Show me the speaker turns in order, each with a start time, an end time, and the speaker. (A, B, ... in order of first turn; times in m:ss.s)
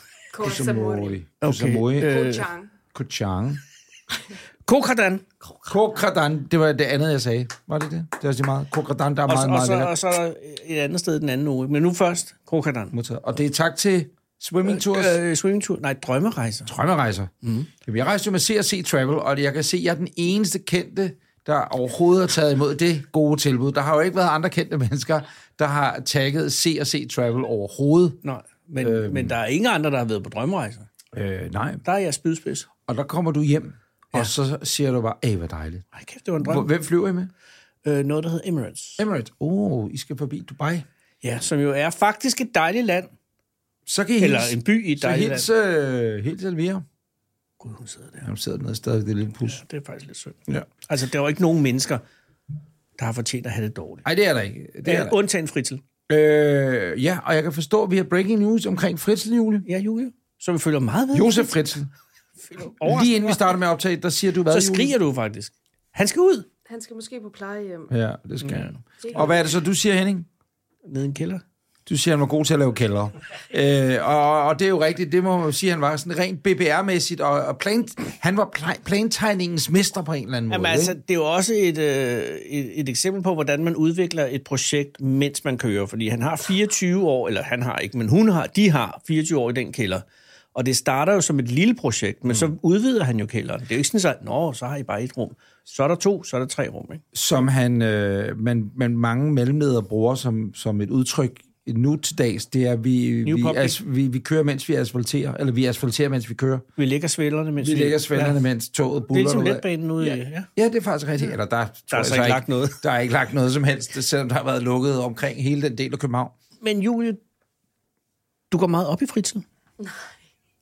0:00.3-0:01.2 A
0:00.4-0:02.2 B
0:01.4-0:02.5 C
0:02.0-0:02.7 A
0:02.9-0:03.6 B
0:04.7-0:05.2 C
0:05.4-0:06.0 A
0:05.7-0:09.9 B
0:09.3-0:12.9 C
0:12.9-0:15.2 B
0:14.6-0:16.7 C
0:16.7-0:17.3 B
0:17.4-0:17.7 C
0:17.8-0:28.2 B
0:28.2-0:30.9 C
0:28.8-0:29.4 B
0:31.1-0:31.8 B
0:31.8-0:32.7 C
0:32.9-0:35.8 B
0:35.9-0:36.7 C
0:36.4-0:37.3 B
0:37.8-0:39.0 C
0:39.0-0:40.8 B
0:41.2-0:43.1 C
0:43.9-0:46.8 B
0:44.2-0:45.5 C
0:47.6-0:48.3 C
0:48.2-0:49.6 B
0:49.5-0:52.0 C
0:53.0-0:54.0 C
0:54.0-0:55.2 B
0:54.8-0:55.8 C
0:56.1-0:59.7 B
0:59.6-1:01.5 C
1:01.1-1:01.9 B
1:02.4-1:03.6 C
1:02.8-1:04.9 B
1:04.5-1:06.5 C
1:06.7-1:07.9 A
1:07.9-1:10.3 B
1:08.4-1:08.8 C
1:09.0-1:09.3 A
1:10.8-1:11.4 C
1:11.9-1:21.0 B
1:20.5-1:37.0 C
1:37.1-1:46.6 B
1:43.2-1:43.8 C
1:46.8-1:48.4 C
1:47.6-1:56.3 B
1:49.1-1:50.5 C
1:51.9-1:52.8 C
1:56.6-1:57.2 C
1:58.5-1:59.4 C